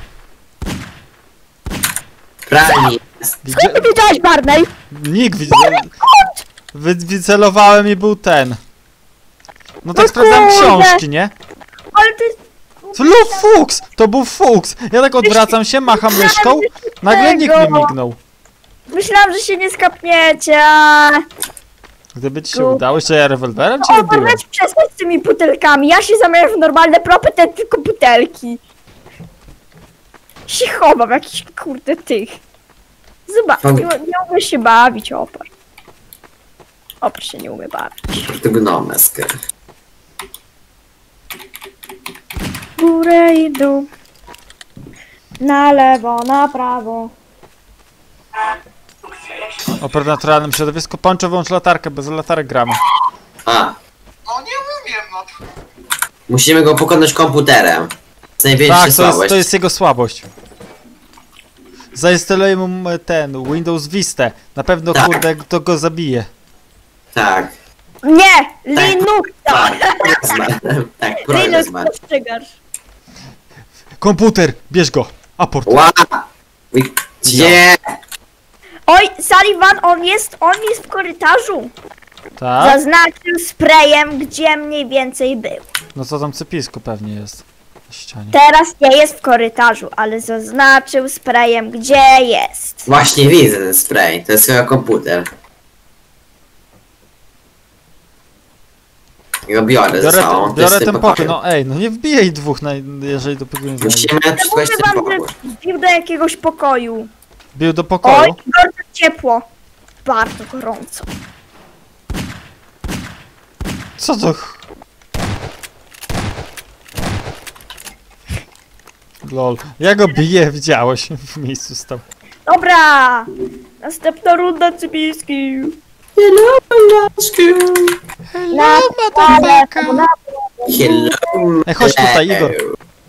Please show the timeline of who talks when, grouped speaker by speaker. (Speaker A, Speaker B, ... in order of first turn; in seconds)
Speaker A: 2.5-3.3, 33.6-33.9, 38.2-39.3, 53.5-53.8, 56.3-59.5, 64.9-65.2, 67.1-67.5, 68.8-71.9, 75.7-77.8, 92.9-95.3, 99.5-101.3, 103.8-105.3, 126.2-128.0, 130.7-132.7
Speaker B: 3.4-3.9, 4.9-5.9, 6.7-8.6, 9.8-11.3, 12.9-18.2, 22.1-24.4, 49.8-52.8, 58.6-60.3, 61.9-66.3, 74.0-75.9, 77.2-77.6, 82.4-82.8, 86.0-88.4, 100.0-104.1, 107.5-108.4, 114.0-114.6, 119.2-122.0, 128.3-130.1, 131.7-132.6
Speaker C: 3.5-4.7, 5.5-6.4, 10.0-11.0, 11.9-13.5, 15.2-17.9, 18.9-21.2, 22.5-22.8, 23.8-28.6, 30.5-32.4, 33.3-35.5, 37.0-38.2, 42.8-43.9, 45.4-47.1, 68.0-70.4, 71.2-72.6, 78.9-81.7, 82.6-85.6, 88.3-92.9, 104.4-107.1, 108.0-109.5, 110.0-111.1, 122.5-123.3, 123.8-125.8, 128.5-131.3